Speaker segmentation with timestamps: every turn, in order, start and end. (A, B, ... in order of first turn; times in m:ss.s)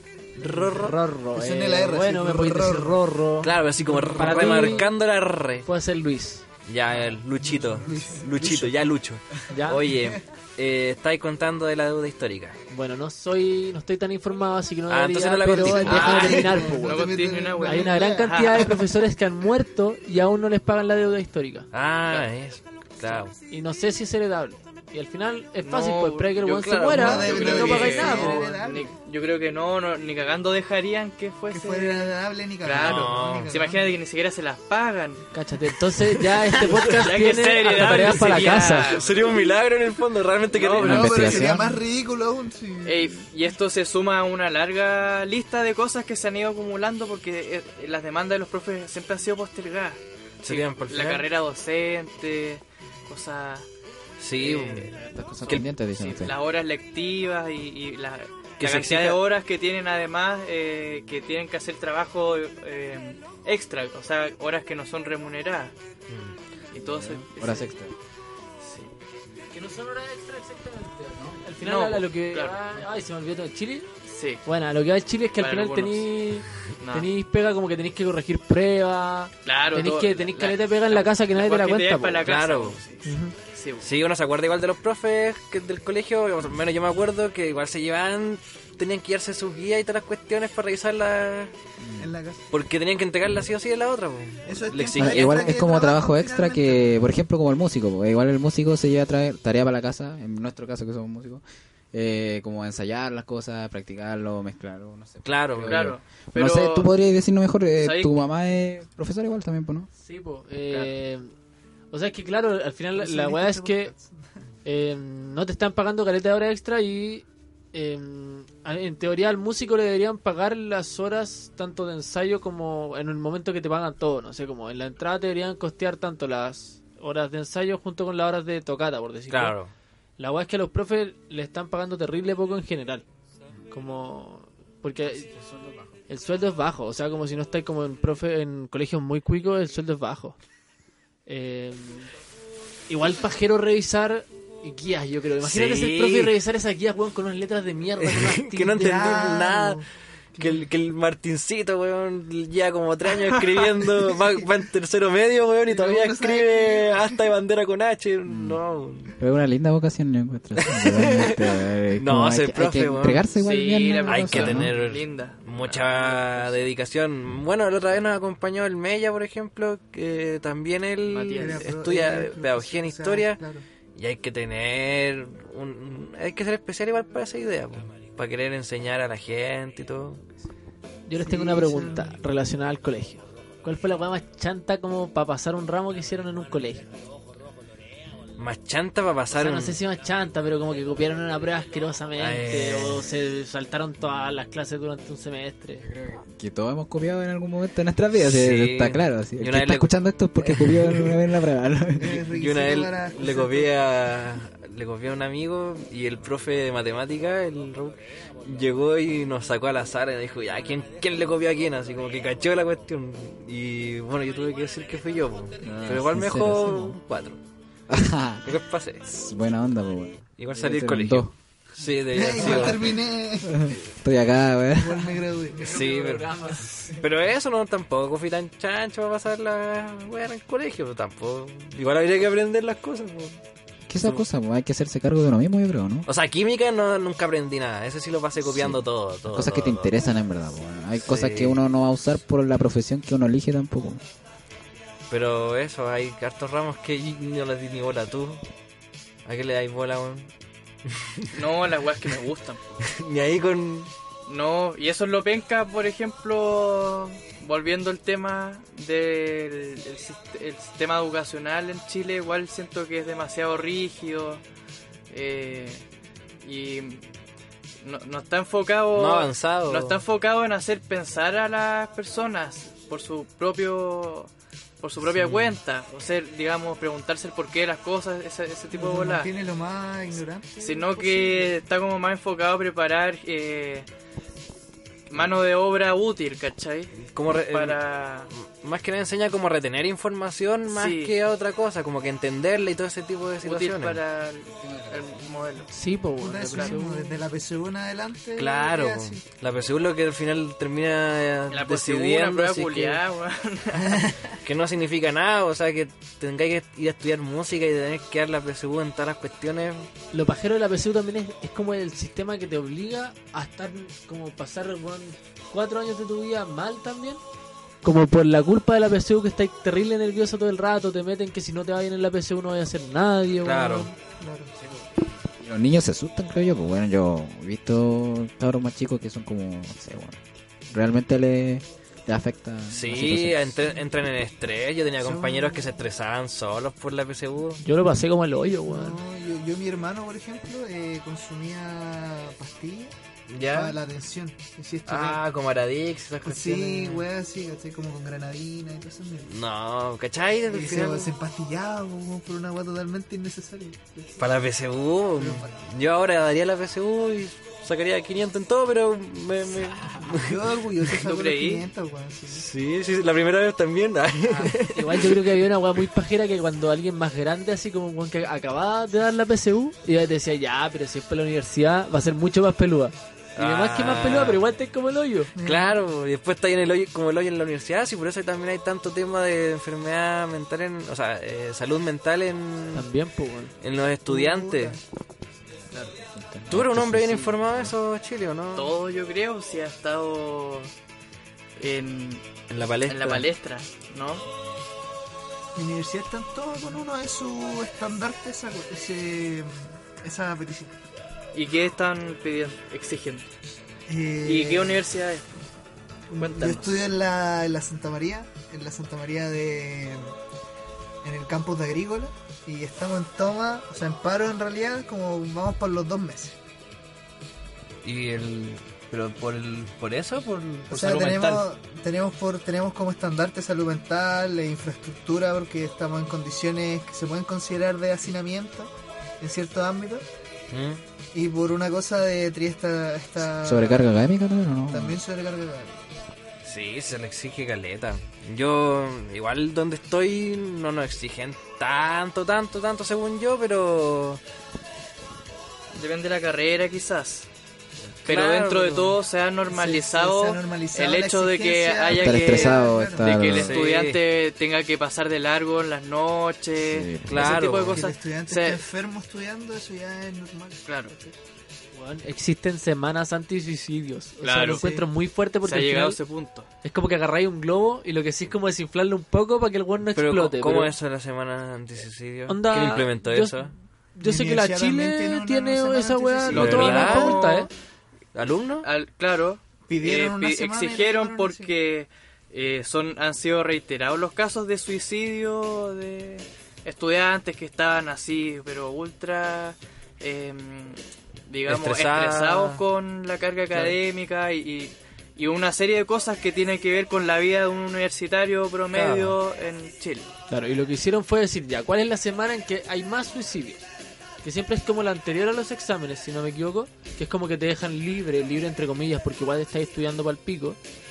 0:00.4-0:01.0 A
0:00.4-0:04.9 B
0:01.3-0:03.0 C
0:03.4-0:05.7 A
0:03.9-0:04.9 C
0:05.6-0:06.4 B
0:06.6-0:12.6 A
0:07.4-0:08.8 C
0:09.5-0:09.9 B
0:09.8-0:10.2 C
0:12.7-0:17.1 B
0:14.9-0:16.6 A
0:15.4-0:18.8 C
0:15.9-0:18.8 D
0:17.6-0:21.7 B
0:21.7-0:23.3 A
0:23.5-0:28.5 B
0:25.6-0:35.2 D
0:26.6-0:28.4 A
0:27.0-0:28.9 C
0:31.5-0:34.0 C
0:32.7-0:33.5 A
0:35.3-0:38.9 B
0:36.0-0:36.8 A
0:36.6-0:39.3 D
0:37.8-0:41.5 A
0:40.5-0:41.5 D
0:40.8-0:41.8 E
0:40.8-0:43.2 C
0:42.8-0:53.7 D
0:50.4-0:51.3 A
0:54.2-0:54.9 A
0:54.4-1:05.7 D
0:55.1-0:56.3 E
0:58.6-0:59.2 A
1:06.1-1:06.4 A
1:06.7-1:07.7 D
1:06.8-1:07.9 E
1:08.6-1:08.9 D
1:09.5-1:13.9 B
1:11.6-1:12.6 D
1:14.0-1:14.4 D
1:14.4-1:22.3 B
1:15.4-1:16.1 D
1:16.8-1:17.1 D
1:19.4-1:23.9 D
1:22.2-1:22.8 A
1:23.0-1:23.3 C
1:23.8-1:31.5 A
1:31.8-1:32.1 E
1:32.0-1:32.5 C
1:32.5-1:35.6 A
1:34.4-1:37.0 C
1:34.9-1:49.9 E
1:45.2-1:45.8 A
1:45.6-1:46.9 D
1:47.8-1:48.2 D
1:50.0-1:51.3 B
1:50.7-1:50.9 D
1:51.9-1:53.9 B
1:52.9-1:54.3 C
1:54.6-2:09.6 B
2:09.3-2:09.7 A
2:10.2-2:13.0 B
2:13.7-2:15.3 B
2:15.1-2:16.0 E
2:16.1-2:20.4 B
2:21.2-2:22.1 B
2:22.9-2:29.0 B
2:25.4-2:26.3 A
2:28.0-2:29.8 A
2:28.7-2:29.8 C
2:30.4-2:30.6 C
2:30.4-2:39.2 A
2:35.7-2:37.2 C
2:38.2-2:38.6 E
2:39.1-2:44.7 E
2:40.6-2:43.3 A
2:43.4-2:46.6 D
2:44.0-2:53.4 A
2:51.0-2:51.7 D
2:51.4-2:53.6 C
2:53.9-3:00.2 A
3:01.1-3:06.9 B
3:01.2-3:02.2 C
3:08.4-3:09.8 A
3:09.3-3:15.9 B
3:12.2-3:13.1 A
3:15.8-3:22.3 E
3:18.1-3:21.2 A
3:22.0-3:23.7 C
3:22.3-3:37.4 A
3:35.6-3:37.0 E
3:37.9-3:41.3 E
3:38.4-3:39.0 A
3:40.4-3:43.0 A
3:42.1-3:43.7 C
3:42.4-3:42.7 E
3:43.4-3:45.2 E
3:44.8-3:45.8 C
3:45.6-3:47.0 B
3:45.6-3:53.4 A
3:53.9-3:56.1 E
3:56.1-4:00.0 A
3:58.4-4:04.0 E
4:01.0-4:01.6 A
4:05.1-4:08.4 A
4:09.2-4:10.3 A
4:10.8-4:11.4 A
4:11.3-4:12.8 D
4:12.8-4:13.9 A
4:14.2-4:24.4 D
4:25.1-4:25.8 D
4:26.4-4:27.0 D
4:27.8-4:39.3 D
4:28.9-4:30.0 A
4:35.0-4:35.6 A
4:38.7-4:41.6 C
4:40.6-4:43.9 D
4:45.1-4:47.0 D
4:47.0-4:47.8 A
4:47.5-4:48.3 D
4:48.3-4:54.0 A
4:50.7-4:51.1 D
4:53.4-4:55.7 D
4:54.6-4:55.2 E
4:55.7-4:57.2 B
4:56.2-4:59.2 C
4:58.4-5:03.0 A
5:01.5-5:04.1 D
5:03.7-5:04.3 C
5:04.4-5:09.9 A
5:10.1-5:17.2 B
5:17.8-5:23.9 B
5:23.4-5:23.9 A
5:24.1-5:24.5 C
5:25.4-5:33.6 E
5:32.7-5:37.6 A
5:35.0-5:35.8 C
5:37.6-5:39.0 B
5:38.7-5:42.9 C
5:43.3-5:43.8 A
5:43.4-5:45.2 C
5:44.9-5:47.1 A
5:46.2-5:49.3 C
5:49.2-5:51.1 A
5:50.5-5:54.2 C
5:54.2-6:00.4 A
5:55.2-5:55.5 C
5:59.8-6:02.5 C
6:01.0-6:01.6 D
6:02.3-6:05.2 A
6:04.3-6:04.5 C
6:04.6-6:15.3 B
6:13.4-6:14.4 A
6:15.3-6:15.8 C
6:15.4-6:22.8 A
6:22.7-6:23.5 B
6:23.6-6:24.8 A
6:24.1-6:24.8 C
6:26.1-6:27.7 E
6:26.5-6:28.7 A
6:28.6-6:30.7 D
6:31.6-6:32.2 D
6:32.5-6:33.2 A
6:32.9-6:34.2 D
6:35.6-6:40.8 C
6:41.3-6:43.3 D
6:43.9-6:44.8 C
6:44.2-6:45.3 D
6:46.1-6:50.1 C
6:46.2-6:46.8 D
6:51.0-6:56.4 C
6:57.8-7:01.4 A
7:00.7-7:10.0 C
7:10.5-7:10.8 A
7:11.1-7:13.9 C
7:13.4-7:15.0 E
7:14.7-7:15.9 C
7:16.4-7:24.2 A
7:25.7-7:27.3 D
7:28.0-7:29.0 A
7:28.0-7:38.6 D
7:29.5-7:33.2 C
7:31.9-7:33.6 E
7:33.3-7:34.0 A
7:36.6-7:37.4 E
7:37.0-7:37.9 A
7:37.3-7:41.1 C
7:40.6-7:41.0 D
7:41.7-7:46.0 B
7:44.2-7:44.8 D
7:45.4-7:46.5 D
7:46.6-7:50.7 B
7:49.9-7:53.5 A
7:52.3-7:57.5 B
7:54.0-7:57.1 C
7:56.3-7:57.5 D
7:56.3-7:57.2 A
7:58.1-7:58.7 A
7:58.6-8:20.1 D
7:59.7-8:01.5 C
8:11.5-8:12.6 A
8:18.7-8:19.2 A
8:20.3-8:23.6 B
8:24.2-8:30.6 B